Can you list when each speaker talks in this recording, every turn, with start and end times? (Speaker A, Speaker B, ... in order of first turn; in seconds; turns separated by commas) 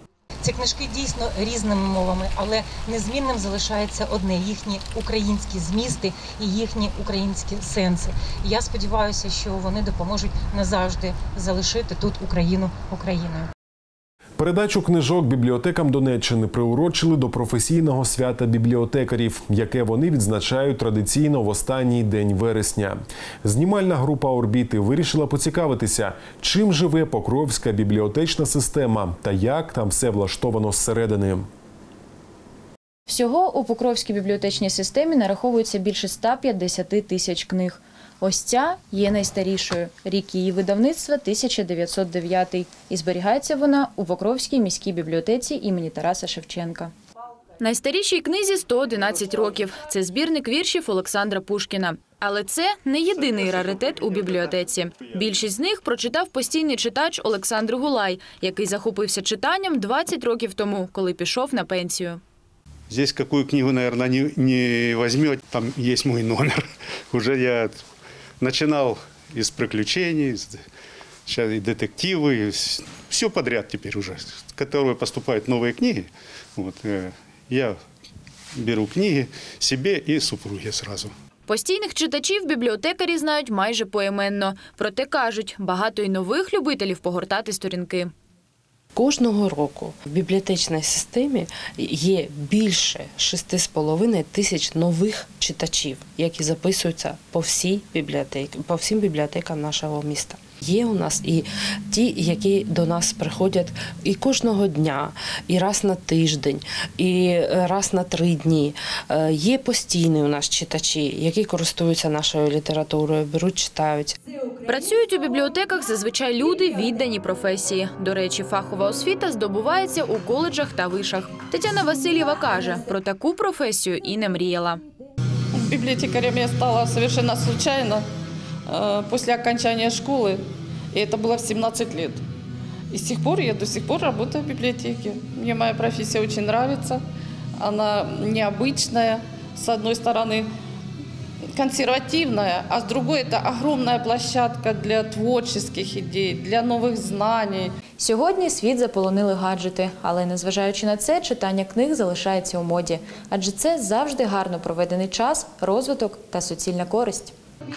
Speaker A: 0.4-13.4, Speaker B: 14.4-31.5, Speaker C: 33.1-46.9, Speaker C: 47.6-62.2, Speaker D: 62.9-67.8, Speaker D: 68.4-70.6, Speaker D: 71.3-77.8, Speaker D: 78.5-81.1, Speaker C: 81.5-88.1, Speaker E: 89.0-114.2, Speaker C: 114.7-124.8, Speaker F: 125.5-128.1, Speaker F: 128.7-130.4, Speaker F: 130.9-132.2, Speaker F: 132.9-137.0, Speaker F: 137.6-140.5, Speaker F: 141.6-147.7, Speaker C: 148.0-157.3